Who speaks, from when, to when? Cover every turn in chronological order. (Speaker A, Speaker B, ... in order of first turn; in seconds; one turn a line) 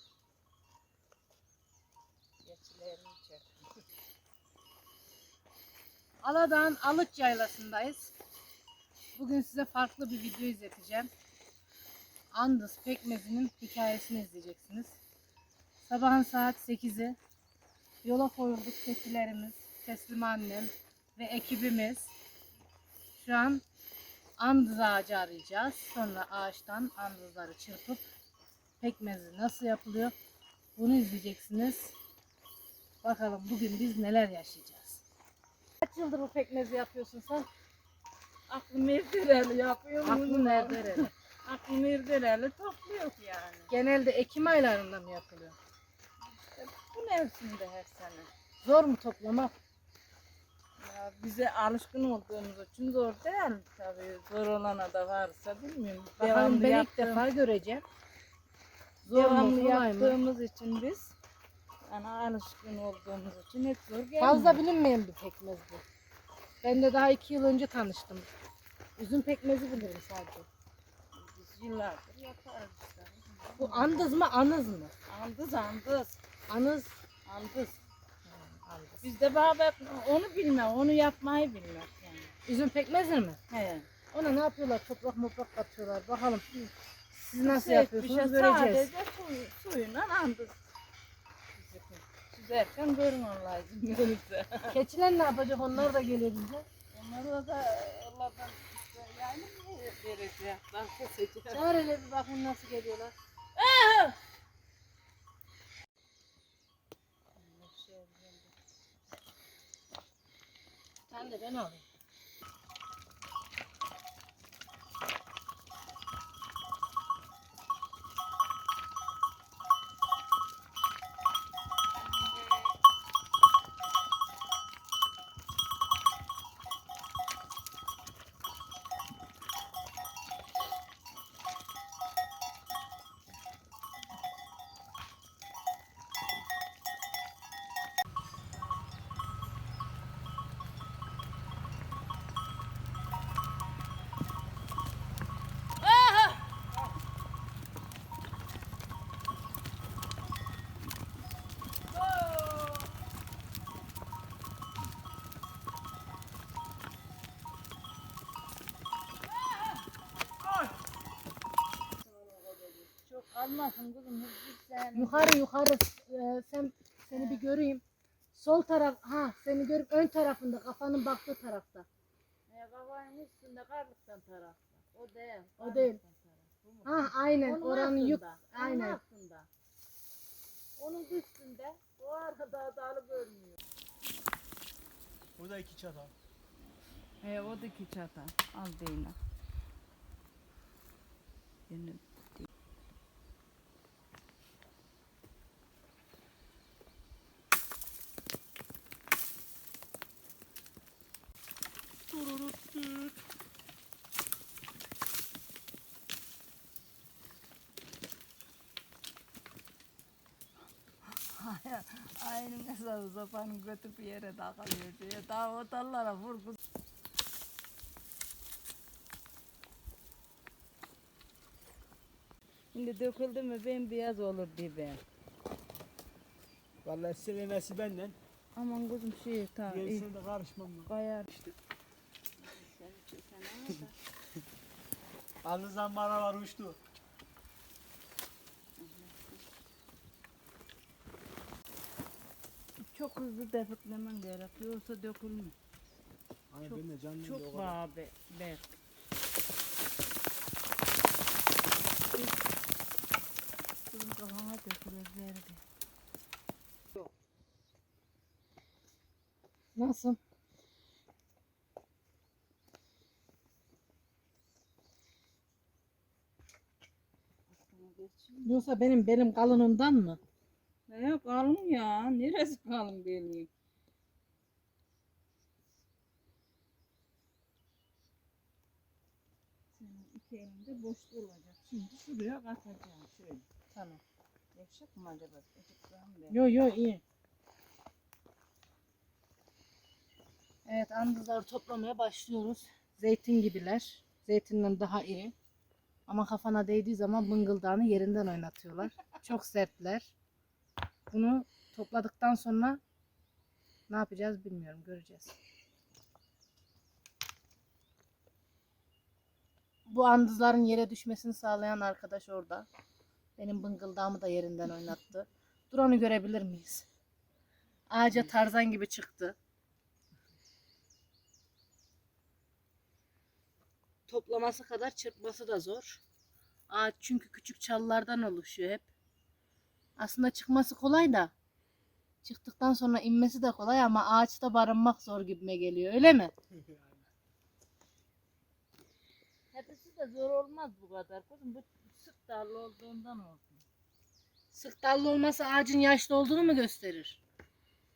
Speaker A: 2.4-3.5
Speaker B: 6.2-8.1
Speaker B: 9.2-11.1
Speaker B: 12.3-15.0
Speaker B: 15.8-17.2
Speaker B: 18.0-22.1
Speaker B: 23.2-23.6
Speaker B: 24.4-28.0
Speaker B: 28.8-30.1
Speaker B: 30.8-31.9
Speaker B: 33.0-35.0
Speaker B: 35.8-37.5
Speaker A: 38.5-43.7
Speaker B: 40.0-41.1
Speaker B: 43.7-45.5
Speaker A: 46.4-48.3
Speaker B: 48.6-49.5
Speaker A: 50.8-57.2
Speaker B: 56.2-57.8
Speaker B: 59.0-60.2
Speaker A: 59.1-61.1
Speaker A: 61.9-64.6
Speaker B: 64.2-65.8
Speaker B: 66.6-68.3
Speaker B: 69.0-70.5
Speaker A: 71.1-74.1
Speaker B: 73.6-74.9
Speaker A: 75.1-76.2
Speaker B: 76.5-77.0
Speaker A: 77.2-77.8
Speaker B: 78.2-79.1
Speaker A: 79.0-82.3
Speaker B: 82.5-83.4
Speaker A: 83.5-83.9
Speaker B: 84.1-86.4
Speaker B: 87.1-88.9
Speaker A: 87.4-90.5
Speaker A: 91.5-94.7
Speaker B: 94.7-96.7
Speaker A: 96.9-101.6
Speaker B: 101.5-103.1
Speaker A: 103.5-104.2
Speaker A: 107.3-108.5
Speaker B: 111.1-111.8
Speaker A: 145.8-146.5
Speaker A: 152.1-152.8
Speaker A: 159.3-159.8
Speaker A: 162.0-165.4
Speaker B: 164.9-167.8
Speaker A: 167.1-167.5
Speaker B: 168.3-171.9
Speaker A: 172.5-179.5
Speaker B: 175.6-176.0
Speaker B: 176.8-179.0
Speaker A: 180.8-183.6
Speaker C: 185.4-186.1
Speaker A: 187.2-189.2
Speaker A: 191.7-192.5
Speaker A: 202.1-202.7
Speaker A: 211.3-216.6
Speaker A: 222.7-225.0
Speaker C: 226.8-228.2
Speaker A: 228.6-230.1
Speaker C: 229.7-231.5
Speaker A: 230.9-231.3
Speaker A: 232.4-233.9
Speaker C: 235.4-236.8
Speaker A: 238.8-239.4
Speaker A: 242.8-245.5
Speaker C: 246.5-247.8
Speaker A: 246.6-248.7
Speaker A: 253.9-255.6
Speaker B: 259.8-260.2
Speaker A: 267.5-268.5
Speaker B: 268.4-270.2
Speaker A: 270.9-273.5
Speaker A: 279.7-283.4
Speaker B: 283.7-284.0
Speaker A: 284.5-286.4
Speaker B: 286.3-287.0
Speaker B: 290.6-295.3
Speaker B: 296.1-300.1
Speaker B: 301.1-302.8
Speaker B: 303.9-305.3
Speaker B: 309.9-312.7
Speaker B: 313.4-316.8
Speaker B: 317.9-319.4
Speaker B: 324.1-326.0
Speaker B: 326.7-328.8
Speaker B: 330.0-331.3
Speaker B: 332.2-336.3
Speaker A: 339.5-343.6
Speaker B: 344.5-347.2